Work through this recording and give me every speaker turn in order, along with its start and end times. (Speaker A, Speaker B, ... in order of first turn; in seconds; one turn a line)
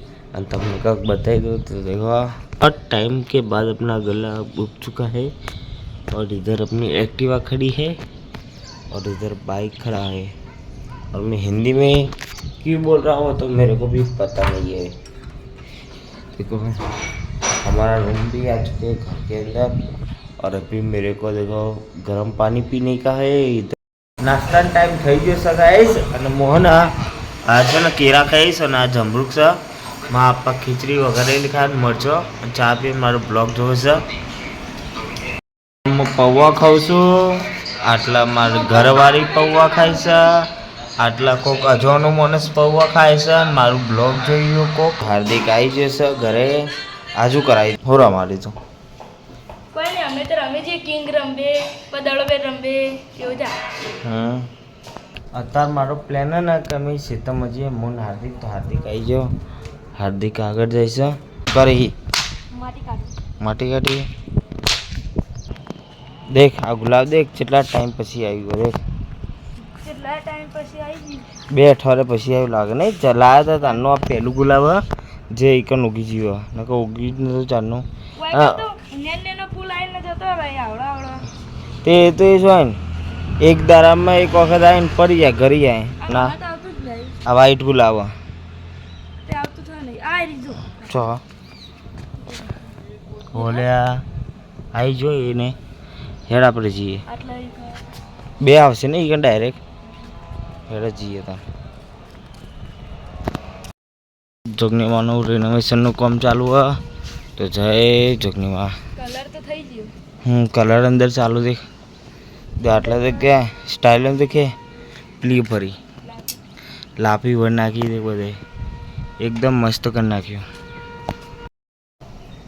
Speaker A: 0.3-5.3
Speaker A: 6.1-8.0
Speaker A: 8.9-10.3
Speaker A: 11.1-14.9
Speaker A: 16.4-16.8
Speaker A: 17.6-19.7
Speaker A: 20.4-26.9
Speaker A: 27.4-34.0
Speaker A: 35.8-48.5
Speaker B: 38.5-39.6
Speaker B: 49.7-53.6
Speaker A: 54.0-54.5
Speaker A: 55.3-59.3
Speaker A: 59.9-62.0
Speaker B: 62.5-63.1
Speaker A: 63.4-64.1
Speaker A: 66.3-68.8
Speaker B: 69.7-71.3
Speaker A: 71.5-78.6
Speaker B: 78.2-81.3
Speaker A: 81.8-82.8
Speaker A: 83.4-86.3
Speaker B: 86.0-87.2
Speaker A: 87.2-88.1
Speaker B: 89.2-90.9
Speaker A: 90.8-91.2
Speaker A: 93.3-94.0
Speaker A: 94.7-95.5
Speaker A: 96.3-97.0
Speaker B: 97.1-97.8
Speaker A: 98.4-99.6
Speaker A: 100.7-101.4
Speaker A: 104.5-106.8
Speaker A: 107.4-108.8
Speaker B: 108.9-109.9
Speaker A: 110.2-111.6
Speaker A: 112.6-114.5
Speaker A: 115.2-115.8
Speaker A: 117.0-118.4
Speaker A: 119.2-120.4